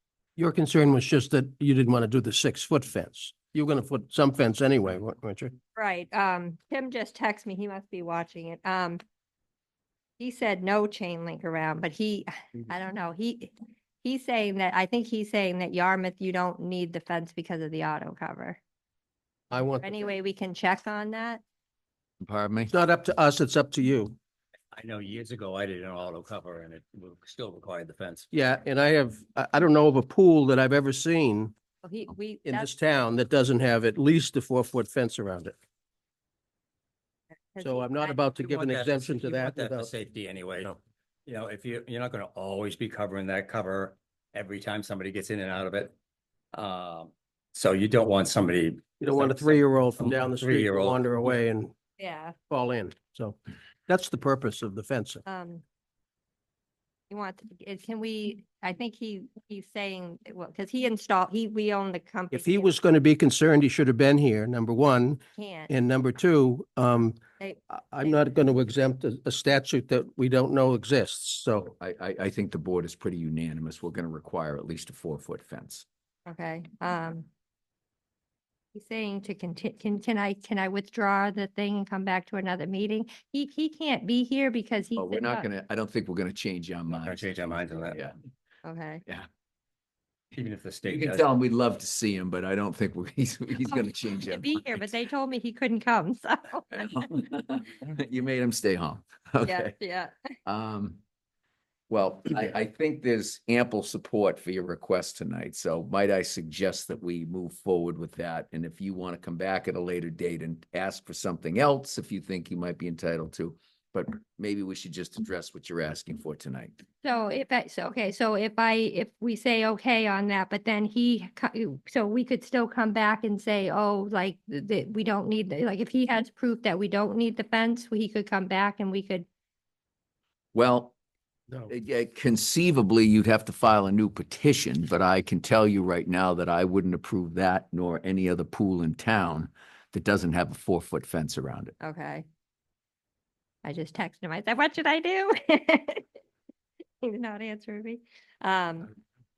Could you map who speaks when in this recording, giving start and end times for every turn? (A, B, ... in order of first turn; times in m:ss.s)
0:00.4-0:05.5 A
0:05.8-0:09.0 B
0:10.2-0:13.5 B
0:14.0-0:18.6 B
0:19.5-0:20.0 A
0:19.8-0:21.4 B
0:22.2-0:22.7 C
0:22.7-0:24.2 A
0:24.7-0:28.2 D
0:28.3-0:31.5 A
0:31.8-0:32.7 B
0:32.4-0:35.6 A
0:37.5-0:38.1 B
0:37.6-0:39.9 A
0:38.4-0:45.9 D
0:46.5-0:51.4 D
0:49.0-0:51.7 A
0:52.0-0:52.4 B
0:52.5-0:55.2 A
0:55.2-0:55.6 B
0:57.1-1:02.7 B
1:02.3-1:07.2 A
1:05.4-1:05.7 B
1:07.4-1:08.2 B
1:07.7-1:11.7 A
1:11.6-1:15.8 C
1:16.2-1:17.3 B
1:18.7-1:25.4 B
1:25.0-1:28.1 C
1:26.9-1:28.0 D
1:28.6-1:29.0 B
1:30.3-1:31.3 D
1:30.9-1:34.9 C
1:34.3-1:36.9 B
1:36.7-1:39.7 C
1:39.4-1:40.1 B
1:40.4-1:41.0 C
1:41.9-1:56.8 C
1:57.0-2:09.2 B
2:10.5-2:10.9 C
2:11.7-2:21.7 C
2:21.8-2:22.2 B
2:23.6-2:26.0 B
2:27.0-2:28.9 B